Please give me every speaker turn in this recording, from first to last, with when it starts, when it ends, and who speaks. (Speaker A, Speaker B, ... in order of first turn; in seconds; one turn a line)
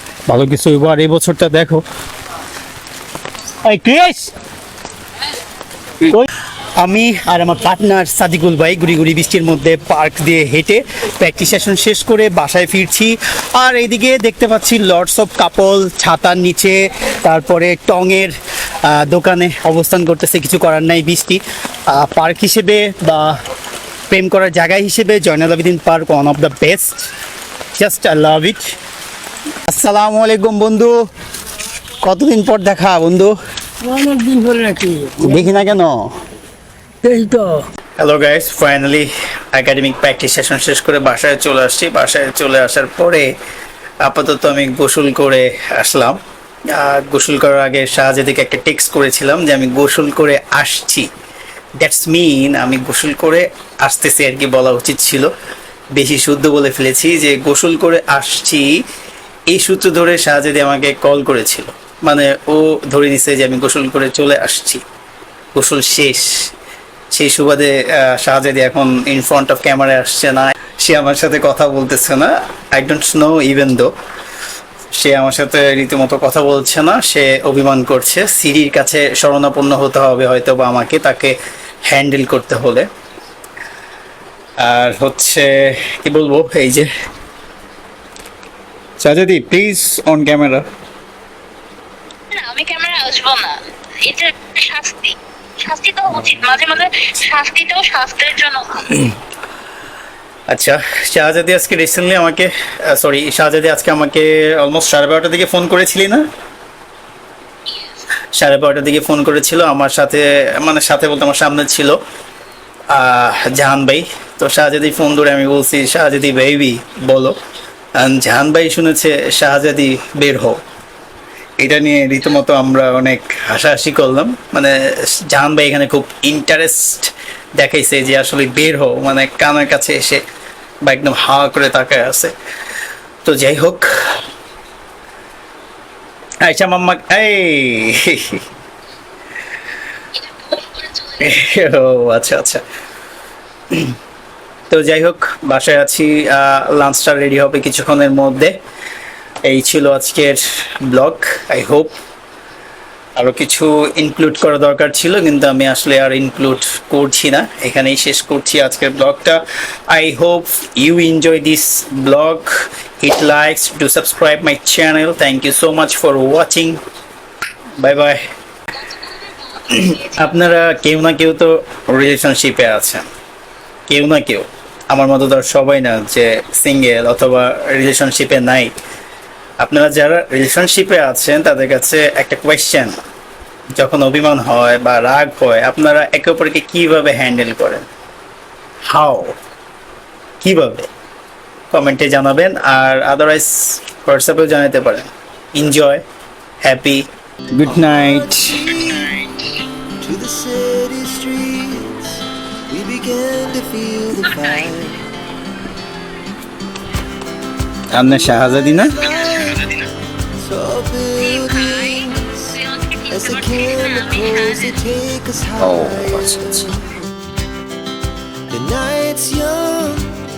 Speaker A: 0.3-1.8
Speaker A: 3.7-4.3
Speaker A: 6.0-23.4
Speaker A: 24.1-27.1
Speaker A: 27.8-28.7
Speaker A: 29.7-30.9
Speaker A: 32.0-33.3
Speaker B: 33.8-35.2
Speaker A: 35.2-36.1
Speaker B: 37.0-37.6
Speaker A: 38.0-43.3
Speaker A: 44.0-46.2
Speaker A: 46.7-51.1
Speaker A: 51.8-55.3
Speaker A: 56.0-58.7
Speaker A: 59.5-64.8
Speaker A: 65.5-66.5
Speaker A: 67.1-73.9
Speaker A: 75.0-81.4
Speaker A: 81.9-82.9
Speaker A: 84.6-86.9
Speaker A: 89.0-90.7
Speaker C: 92.7-93.5
Speaker C: 94.2-98.9
Speaker A: 100.5-106.2
Speaker A: 108.3-112.0
Speaker A: 112.9-117.3
Speaker A: 118.0-120.6
Speaker A: 121.6-130.2
Speaker A: 130.8-132.3
Speaker A: 133.2-134.2
Speaker A: 136.4-138.4
Speaker C: 140.5-140.8
Speaker A: 141.2-142.6
Speaker A: 144.7-148.6
Speaker A: 149.4-151.9
Speaker A: 153.2-166.8
Speaker A: 167.8-168.2
Speaker A: 169.7-173.1
Speaker A: 173.9-178.7
Speaker A: 179.6-183.0
Speaker A: 183.8-187.9
Speaker A: 188.9-189.3
Speaker A: 190.4-190.9
Speaker A: 191.7-196.0
Speaker A: 196.6-198.7
Speaker D: 197.8-199.2
Speaker D: 200.0-205.1
Speaker A: 207.9-209.0
Speaker D: 208.3-209.8
Speaker D: 210.4-217.1
Speaker C: 212.7-214.6
Speaker D: 218.5-220.2